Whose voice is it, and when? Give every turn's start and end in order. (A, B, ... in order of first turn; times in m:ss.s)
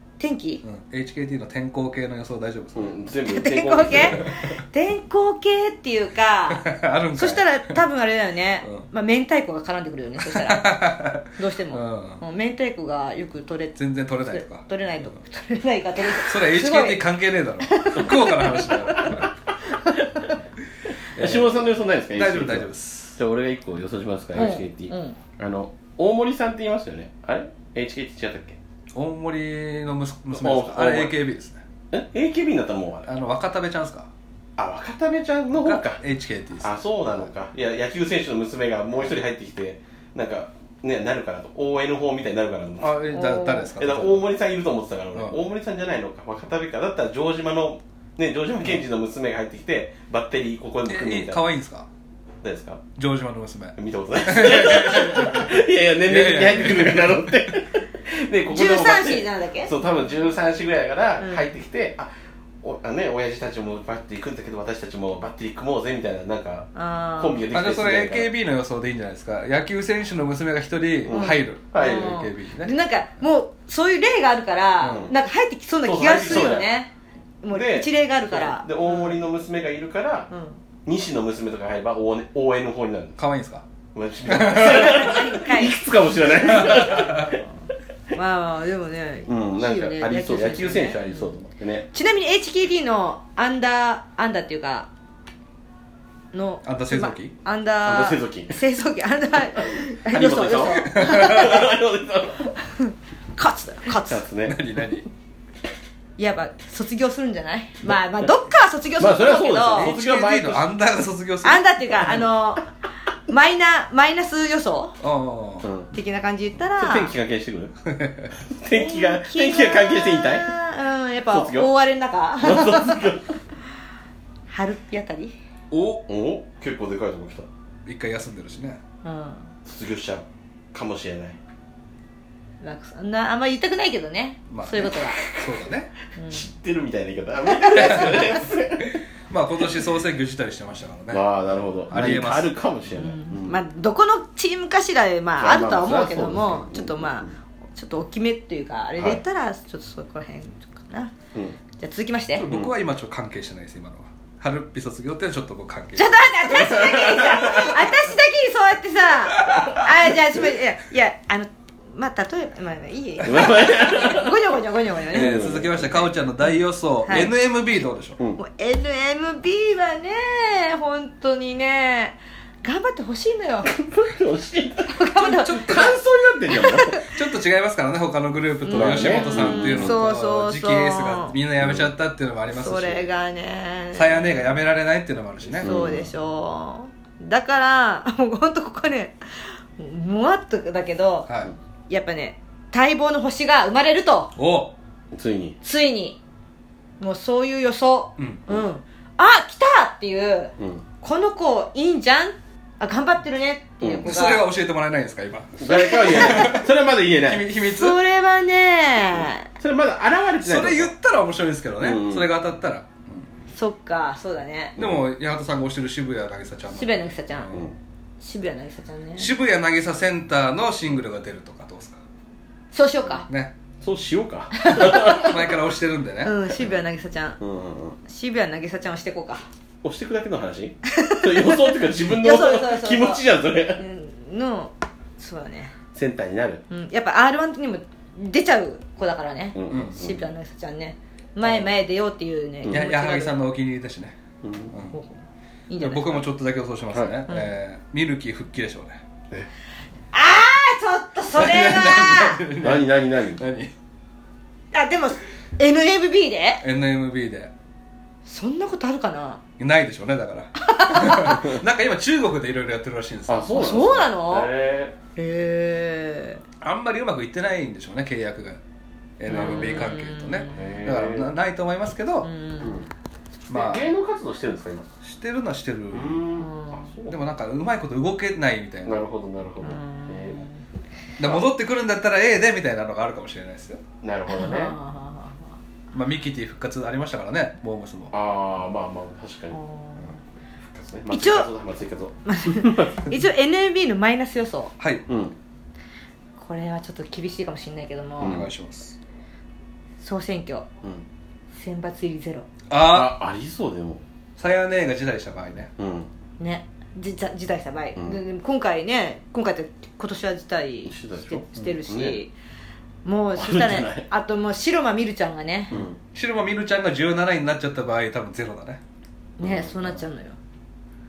0:00.2-0:00.6 A
0:00.6-0:03.0 B
0:02.8-0:04.3 C
0:03.3-0:10.8 A
0:03.9-0:04.6 B
0:06.5-0:07.8 B
0:10.2-0:12.2 B
0:11.3-0:17.0 A
0:13.8-0:15.2 B
0:16.2-0:19.3 B
0:17.6-0:19.2 A
0:19.8-0:20.4 A
0:21.2-0:21.6 B
0:21.2-0:28.6 C
0:22.1-0:23.2 B
0:24.4-0:25.2 A
0:29.0-0:31.6 B
0:30.4-0:31.2 C
0:31.9-0:33.1 C
0:33.1-0:34.1 B
0:34.6-0:36.0 C
0:35.6-0:37.2 B
0:36.6-0:43.0 C
0:42.8-0:44.3 B
0:43.1-0:43.7 A
0:43.8-0:51.4 C
0:50.9-0:51.9 B
0:52.4-0:52.8 C
0:53.0-0:57.6 B
0:53.8-1:02.1 C
0:58.5-0:59.7 A
1:01.2-1:01.5 A
1:02.6-1:08.3 C
1:06.8-1:07.5 A
1:07.5-1:12.7 B
1:11.0-1:12.2 C
1:11.1-1:16.9 A
1:14.8-1:15.2 C
1:15.8-1:16.7 C
1:17.4-1:19.2 A
1:17.5-1:20.3 C
1:20.3-1:20.6 A
1:20.8-1:23.2 C
1:23.2-1:23.6 B
1:24.0-1:27.4 C
1:24.3-1:25.1 B
1:24.4-1:27.2 A
1:26.5-1:27.3 B
1:28.1-1:31.3 A
1:29.3-1:31.9 C
1:31.9-1:34.9 A
1:36.3-1:41.7 A
1:36.6-1:37.3 B
1:37.8-1:38.6 C
1:39.6-1:42.5 C
1:40.6-1:41.7 B
1:42.7-1:44.2 A
1:44.0-1:44.6 C
1:44.5-1:45.1 B
1:46.2-1:49.9 A
1:49.0-1:50.6 C
1:49.8-1:52.2 B
1:51.4-1:52.7 A
1:53.3-1:55.0 A
1:55.0-1:55.7 B
1:55.6-1:55.9 C
1:55.9-1:57.1 A
1:56.8-1:57.7 C
1:57.9-1:58.3 B
1:58.4-2:00.5 C
1:58.7-2:03.1 A
2:01.3-2:01.7 C
2:02.4-2:03.4 C
2:04.5-2:05.4 A
2:05.7-2:06.1 B
2:06.1-2:07.5 C
2:07.9-2:08.8 B
2:09.0-2:09.5 A
2:09.6-2:11.4 C
2:12.6-2:15.2 A
2:14.5-2:15.9 B
2:16.2-2:16.5 A
2:16.3-2:19.0 C
2:17.7-2:21.3 B
2:21.1-2:23.6 C
2:21.9-2:22.5 B
2:22.9-2:31.2 A
2:25.4-2:27.3 C
2:29.0-2:29.2 C
2:31.8-2:32.5 A
2:32.4-2:36.4 B
2:36.0-2:45.4 A
2:36.5-2:37.8 C
2:43.2-2:44.4 C
2:45.1-2:46.1 C
2:45.1-2:48.2 B
2:48.4-2:53.7 A
2:53.7-2:54.9 C
2:54.9-2:55.9 A
2:55.2-2:56.0 B
2:55.6-2:56.9 C
2:56.5-2:57.1 A
2:56.9-3:03.1 B
2:58.6-3:01.4 A
2:58.7-3:00.0 C
3:01.6-3:01.9 C
3:02.5-3:04.5 A
3:03.9-3:05.7 B
3:05.5-3:06.1 C
3:05.6-3:11.3 A
3:11.3-3:11.5 B
3:11.9-3:14.3 A
3:14.4-3:14.7 B
3:15.1-3:15.6 C
3:15.6-3:16.2 A
3:17.0-3:24.5 A
3:18.2-3:18.4 B
3:20.6-3:20.8 C
3:23.8-3:24.1 C
3:24.0-3:26.7 B
3:25.6-3:27.5 C
3:26.1-3:26.5 A
3:27.2-3:28.0 B
3:27.7-3:29.5 A
3:29.6-3:30.9 C
3:30.4-3:33.3 B
3:31.8-3:32.3 C
3:33.6-3:34.8 A
3:34.8-3:37.7 B
3:36.7-3:37.5 A
3:37.5-3:37.8 C
3:38.2-3:39.3 A
3:39.2-3:42.0 B
3:42.7-3:43.3 A
3:43.3-3:43.5 B
3:43.8-3:45.5 C
3:44.5-3:45.4 A
3:44.8-3:46.4 B
3:46.2-3:47.4 A
3:47.4-3:48.0 C
3:48.1-3:49.4 A
3:49.8-3:53.8 C
3:50.9-3:55.7 A
3:56.0-3:56.6 C
3:56.7-4:03.4 A
3:59.6-4:00.2 C
3:59.7-4:00.0 B
4:02.7-4:04.2 B
4:04.4-4:04.7 C
4:04.9-4:06.2 A
4:05.8-4:09.0 B
4:06.9-4:07.2 C
4:10.1-4:12.4 A
4:11.4-4:13.7 B
4:12.6-4:13.4 C
4:14.7-4:16.6 A
4:16.6-4:17.5 B
4:18.2-4:19.4 A
4:19.6-4:24.0 B
4:20.6-4:21.6 A
4:23.3-4:25.0 C
4:23.5-4:24.5 A
4:25.2-4:26.4 A
4:26.6-4:28.6 B
4:29.2-4:32.3 B
4:29.3-4:30.8 A
4:30.5-4:31.4 C
4:32.2-4:32.8 A
4:32.6-4:32.9 C
4:33.5-4:33.9 B
4:33.5-4:34.9 C
4:35.0-4:36.2 B
4:35.9-4:37.2 C
4:36.4-4:36.9 A
4:37.1-4:39.0 B
4:38.8-4:40.4 C
4:39.6-4:40.6 A
4:41.2-4:43.8 B
4:41.2-4:41.4 C
4:44.0-4:44.8 C
4:44.3-4:45.5 A
4:45.9-4:48.1 B
4:48.1-4:49.6 C
4:49.5-4:50.2 A
4:50.7-4:53.1 C
4:51.1-4:51.5 A
4:52.2-4:54.7 A
4:54.8-4:55.0 B
4:55.1-4:55.4 C
4:56.4-4:58.5 A
4:58.2-4:58.5 C
4:58.2-4:59.0 B
5:00.0-5:00.7 A
5:01.6-5:02.5 A
5:02.7-5:03.2 B
5:02.8-5:04.0 C
5:04.4-5:05.7 B
5:05.8-5:06.1 C
5:06.4-5:12.3 A
5:08.0-5:08.2 C
5:10.8-5:12.2 C
5:13.0-5:15.8 A
5:13.4-5:14.1 C
5:15.7-5:16.0 C
5:15.7-5:18.8 B
5:19.4-5:20.4 A
5:19.4-5:20.0 C